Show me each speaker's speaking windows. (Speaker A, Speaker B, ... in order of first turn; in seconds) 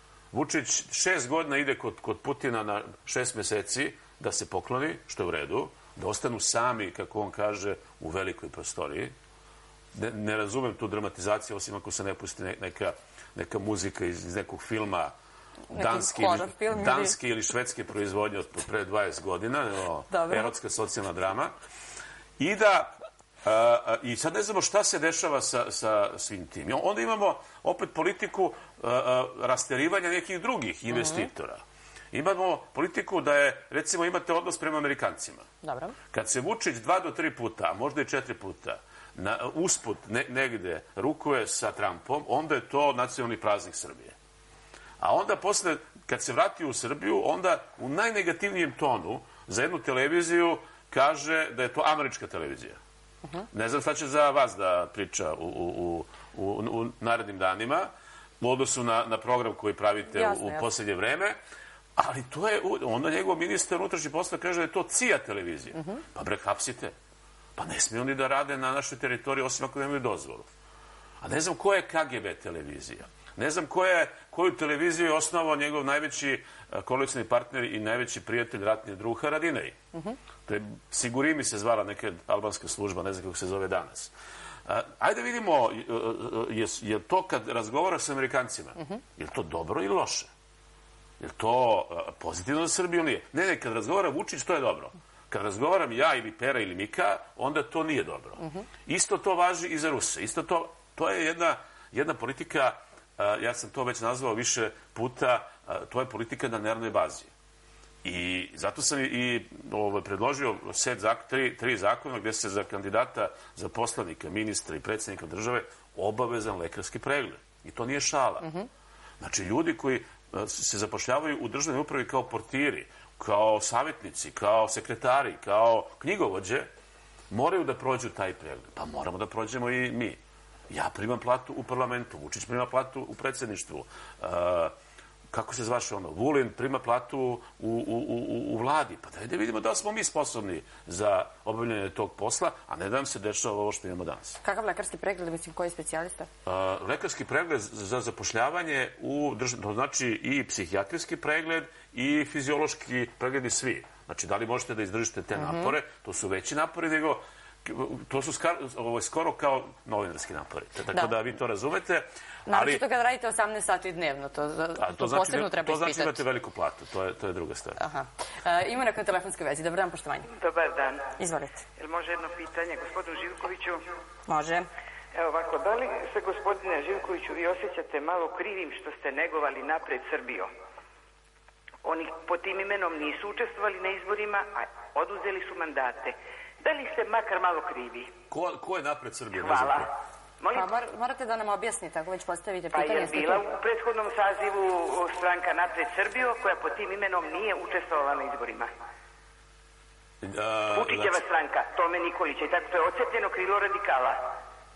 Speaker A: 0.3-9.1, 9.9-15.1, 15.7-21.5, 22.4-31.6, 32.1-35.5, 36.1-44.1, 45.0-52.8, 53.5-57.9, 58.4-61.4, 62.0-66.9, 67.5-70.5, 71.2-79.8, 80.5-84.1, 84.6-90.3, 91.2-107.3, 108.0-118.5, 119.2-126.7, 127.3-130.2, 130.7-134.7, 135.3-144.4, 146.4-162.8, 164.8-167.8, 188.3-189.9, 200.2-201.2
Speaker B: 15.7-17.1, 20.1-20.4, 30.9-31.3, 35.6-36.0, 60.1-60.6, 144.4-146.3, 155.4-155.7, 162.5-166.2, 167.8-170.3, 171.2-171.6, 174.3-174.7, 190.5-193.5
Speaker C: 170.3-171.1, 171.8-173.8, 175.1-180.5, 181.8-188.1, 189.3-189.9, 190.4-190.7, 192.7-198.7, 200.7-204.2